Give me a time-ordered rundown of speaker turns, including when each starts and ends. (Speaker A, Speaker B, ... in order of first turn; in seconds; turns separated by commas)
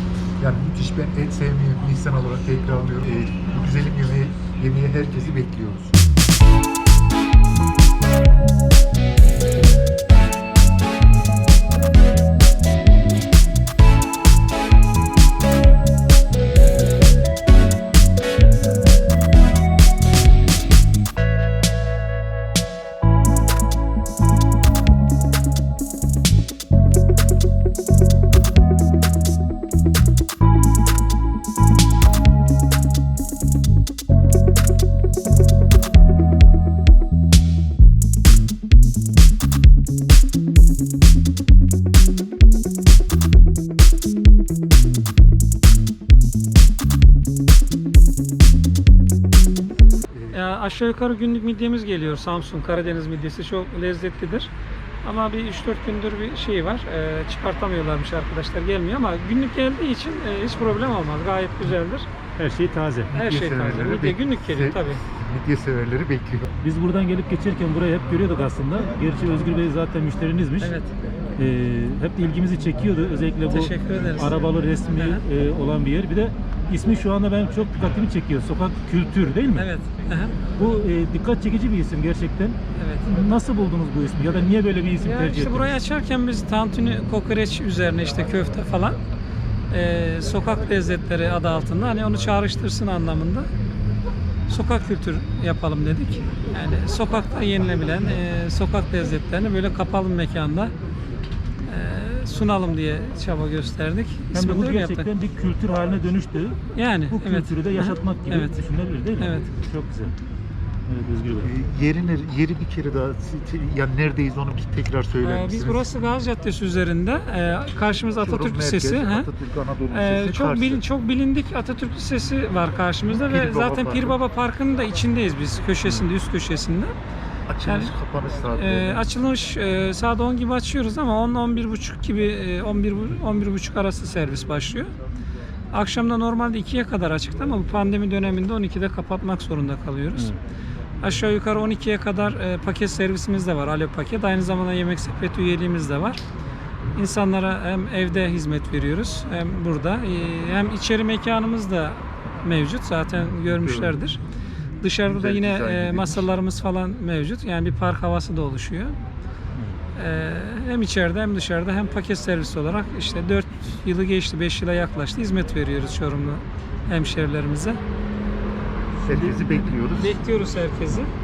Speaker A: 0.4-6.0, Speaker A: 50.1-50.4, Speaker B: 50.3-54.5, Speaker B: 55.0-62.1, Speaker C: 62.4-63.2, Speaker B: 63.1-65.0, Speaker A: 63.1-66.5, Speaker C: 66.6-70.7, Speaker B: 70.6-70.9, Speaker C: 71.4-79.7, Speaker B: 73.5-75.2, Speaker B: 79.5-80.4, Speaker C: 80.6-85.8, Speaker B: 82.8-83.1, Speaker B: 85.0-89.0, Speaker B: 89.7-93.5, Speaker B: 94.5-100.7, Speaker B: 101.7-105.1, Speaker C: 104.3-110.2, Speaker B: 106.7-108.6, Speaker B: 109.2-109.5, Speaker C: 110.9-111.5, Speaker A: 111.4-115.9, Speaker B: 115.2-119.3, Speaker A: 118.1-120.8, Speaker B: 119.9-127.0, Speaker A: 123.1-124.2, Speaker A: 127.5-129.1, Speaker B: 127.6-127.9, Speaker B: 128.5-134.9, Speaker B: 135.7-140.3, Speaker C: 140.2-140.4, Speaker B: 141.0-146.2, Speaker B: 146.9-154.2, Speaker A: 153.5-154.1, Speaker B: 154.8-159.0, Speaker A: 155.1-156.3, Speaker B: 160.0-167.8, Speaker A: 169.0-170.2, Speaker C: 169.1-169.6, Speaker B: 170.0-171.1